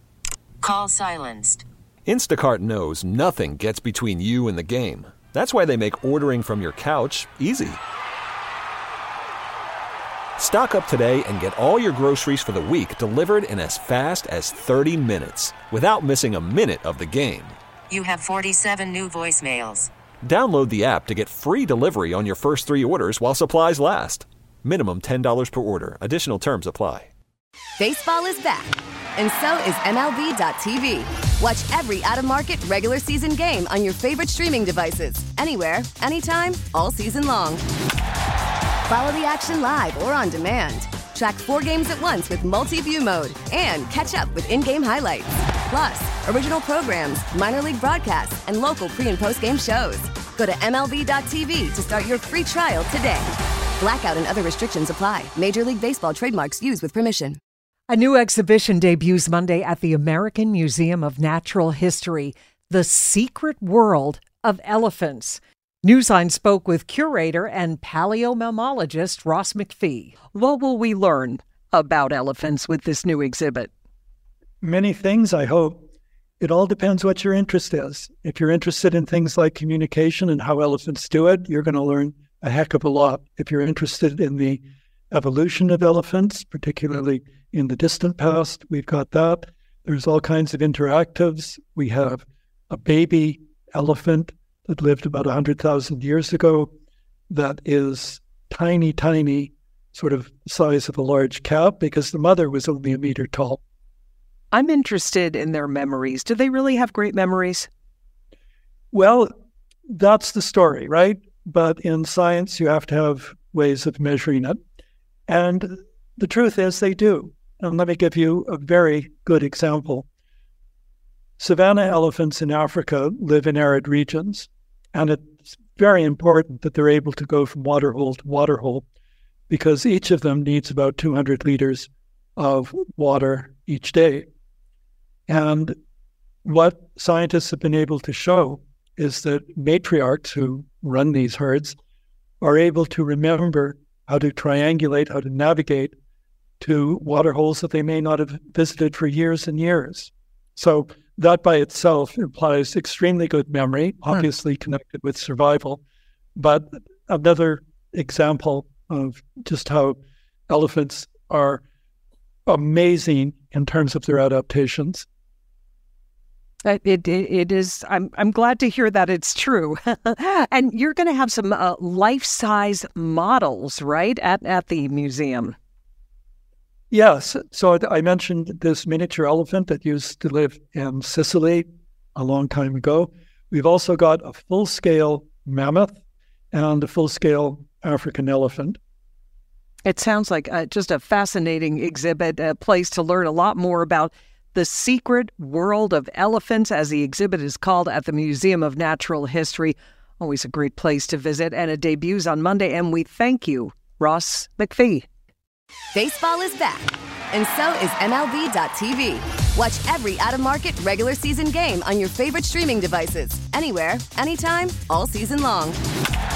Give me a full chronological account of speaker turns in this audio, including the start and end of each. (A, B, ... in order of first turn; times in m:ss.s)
0:00.6-0:01.6 A
0:02.0-0:07.8 B
0:10.4-0:17.6 B
0:17.9-0:19.9 A
0:20.2-0:27.1 B
0:27.8-0:37.6 C
0:38.9-0:57.4 C
0:57.9-1:13.7 D
1:14.6-1:15.8 E
1:16.4-1:36.7 E
1:37.3-1:43.6 E
1:44.5-1:47.7 D
1:48.9-1:49.3 E
1:49.9-1:54.6 E
1:55.3-2:00.0 E
2:01.4-2:08.8 E
2:09.5-2:14.3 E
2:15.3-2:15.7 E
2:16.4-2:21.7 E
2:22.4-2:25.9 E
2:26.6-2:35.8 E
2:36.4-2:40.0 E
2:40.5-2:41.6 E
2:42.5-2:45.0 E
2:46.6-2:55.5 D
2:56.9-3:06.0 E
3:06.5-3:08.8 E
3:09.8-3:25.0 D
3:25.9-3:35.8 C